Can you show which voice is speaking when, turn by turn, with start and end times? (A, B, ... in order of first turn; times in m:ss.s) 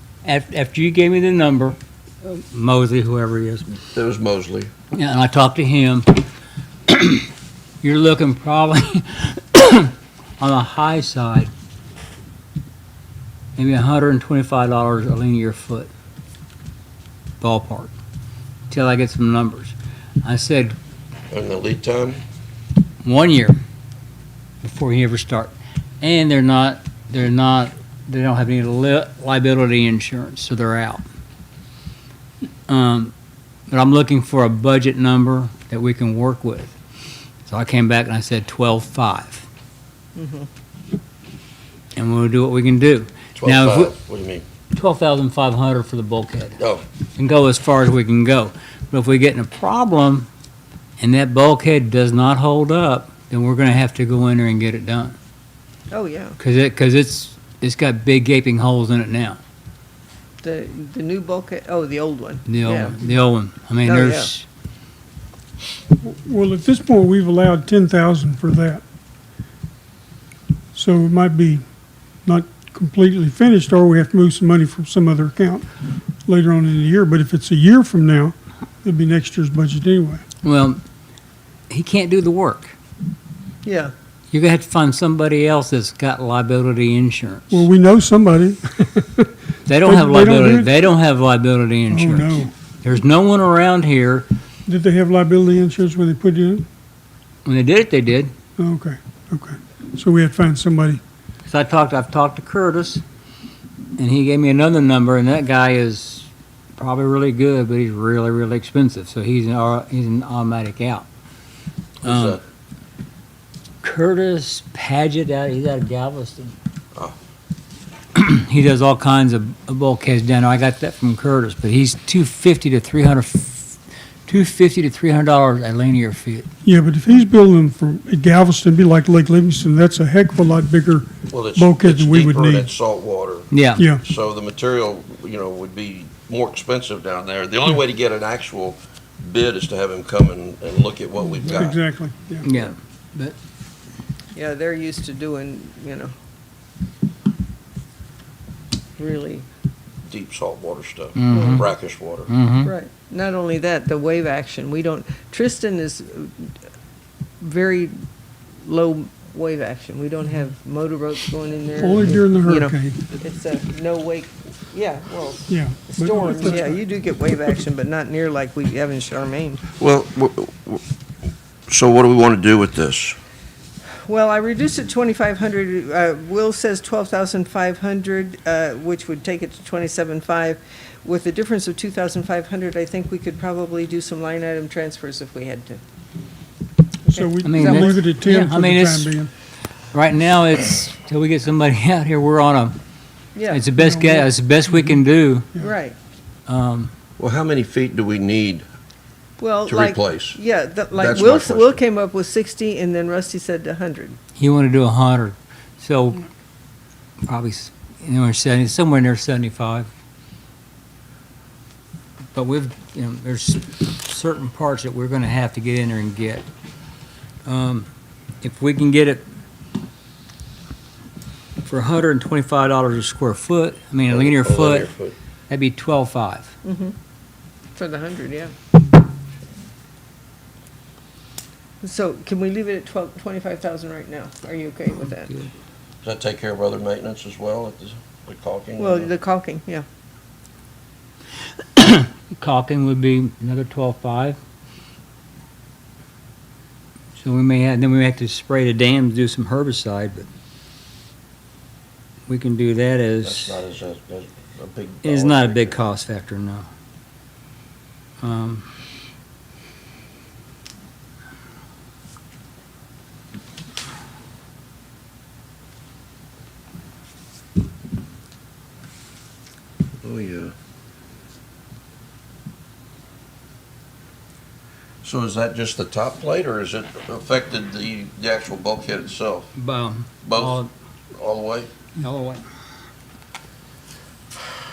0:00.2-0:03.8 A
0:03.9-0:04.7 B
0:04.9-0:06.2 A
0:06.9-0:07.3 A
0:07.8-0:11.5 A
0:13.6-0:15.9 A
0:17.4-0:17.9 A
0:18.7-0:20.8 A
0:21.3-0:22.2 B
0:23.0-0:23.6 A
0:24.6-0:31.0 A
0:32.7-0:33.1 A
0:33.7-0:36.7 A
0:37.4-0:39.4 A
0:40.2-0:40.5 C
0:42.0-0:43.9 A
0:43.4-0:44.4 B
0:44.7-0:46.6 A
0:47.2-0:50.3 A
0:51.0-0:55.2 A
0:55.9-0:56.4 C
0:56.4-0:59.4 A
1:00.4-1:03.0 C
1:02.5-1:04.4 A
1:03.8-1:04.3 C
1:06.0-1:08.8 D
1:10.7-1:11.6 D
1:12.2-1:15.6 D
1:16.2-1:20.2 D
1:20.4-1:20.8 A
1:21.7-1:22.7 A
1:23.6-1:23.9 C
1:24.3-1:27.6 A
1:27.5-1:29.3 D
1:29.6-1:34.2 A
1:29.8-1:30.7 D
1:31.9-1:32.5 D
1:34.7-1:36.7 D
1:37.4-1:38.3 A
1:38.6-1:41.0 D
1:41.4-1:43.0 A
1:44.0-1:51.1 A
1:52.0-1:52.4 B
1:52.0-1:52.4 A
1:53.8-1:56.5 A
1:58.1-2:06.5 A
2:06.6-2:12.7 D
2:11.3-2:21.8 B
2:13.5-2:13.8 A
2:13.8-2:14.0 D
2:21.4-2:22.4 D
2:22.4-2:23.3 A
2:24.3-2:26.1 C
2:29.0-2:29.5 C
2:30.1-2:32.3 B
2:31.2-2:31.7 A
2:31.3-2:31.6 C
2:32.3-2:32.7 A
2:32.6-2:36.5 C
2:37.4-2:37.9 C
2:38.6-2:49.6 C
2:41.8-2:43.0 D
2:45.5-2:46.8 D
2:49.7-2:50.8 B
2:51.7-2:53.2 B
2:54.0-3:05.8 C
3:07.0-3:08.0 C
3:07.1-3:09.3 D
3:07.4-3:09.1 A
3:09.9-3:12.8 A
3:13.3-3:13.6 C
3:13.5-3:15.5 A
3:13.8-3:14.3 D
3:15.6-3:16.0 C
3:16.5-3:16.9 A
3:17.2-3:18.6 B
3:19.4-3:24.2 C
3:19.6-3:20.4 B
3:20.9-3:21.8 B
3:24.4-3:26.2 A
3:27.2-3:29.9 A
3:32.3-3:36.4 A
3:37.5-3:37.9 A
3:38.4-3:39.2 A
3:41.6-3:44.9 A
3:44.1-3:45.1 B
3:45.5-3:46.5 A
3:46.6-3:46.9 C
3:47.8-3:48.5 C
3:51.8-3:55.5 C
3:56.0-3:59.1 B
3:58.8-3:59.8 C
4:01.8-4:04.4 A
4:07.2-4:10.3 A
4:12.3-4:13.6 A
4:13.2-4:15.8 B
4:15.0-4:16.7 A
4:18.2-4:18.6 A
4:30.0-4:30.5 B
4:35.0-4:39.5 B
4:39.6-4:40.7 A
4:40.2-4:40.6 B
4:41.1-4:41.7 B
4:42.0-4:42.4 A